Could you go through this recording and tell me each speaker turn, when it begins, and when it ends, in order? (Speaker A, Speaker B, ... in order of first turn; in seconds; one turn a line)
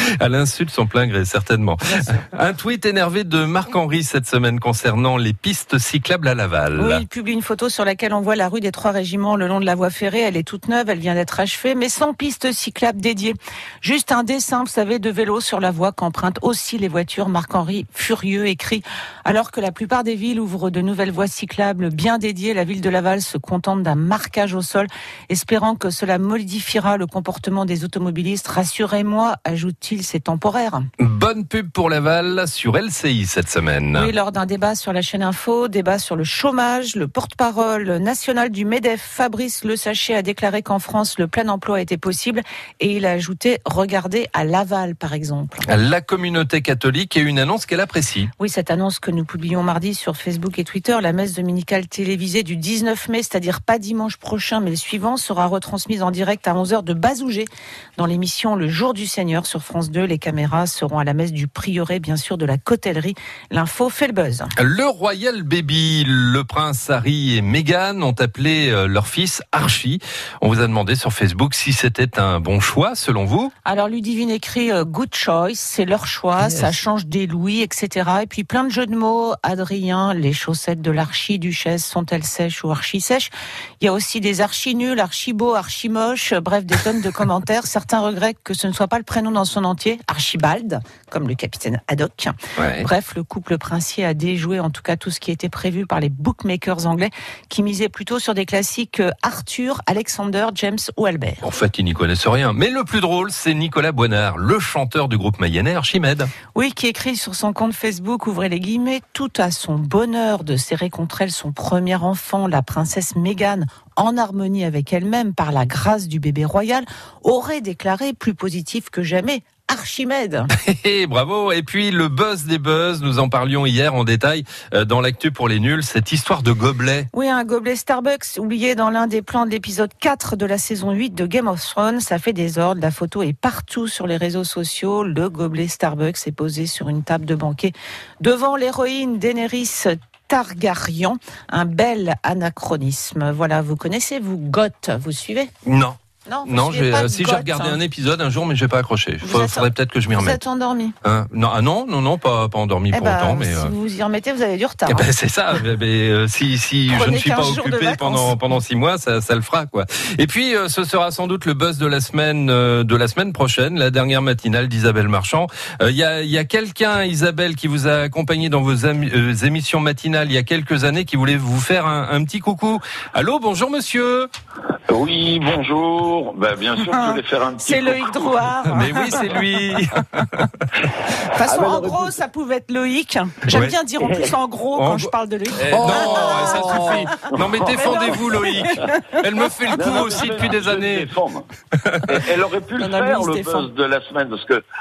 Speaker A: 0.2-7.0
Speaker B: 1.9-2.2
Speaker B: 6.8-30.8
Speaker A: 31.0-34.1
Speaker B: 33.9-45.6
Speaker A: 45.7-48.3
Speaker B: 48.4-64.5
Speaker A: 64.6-73.5
Speaker B: 73.6-101.4
Speaker A: 76.4-76.8
Speaker A: 92.6-92.9
Speaker A: 101.4-106.3
Speaker B: 106.5-120.5
Speaker A: 120.6-127.1
Speaker B: 127.1-145.5
Speaker A: 145.6-150.4
Speaker B: 146.2-147.8
Speaker B: 149.2-150.9
Speaker A: 151.0-153.7
Speaker B: 152.9-155.1
Speaker A: 154.9-174.3
Speaker B: 156.9-158.3
Speaker C: 174.9-178.5
Speaker B: 176.8-179.2
Speaker A: 178.7-180.5
Speaker B: 181.2-189.0
Speaker C: 181.4-182.1
Speaker A: 183.5-183.7
Speaker C: 184.0-184.3
Speaker A: 184.8-191.1
Speaker C: 187.3-188.1
Speaker C: 189.7-191.5
Speaker A: 191.8-192.1
Speaker C: 192.1-194.6
Speaker B: 192.8-193.7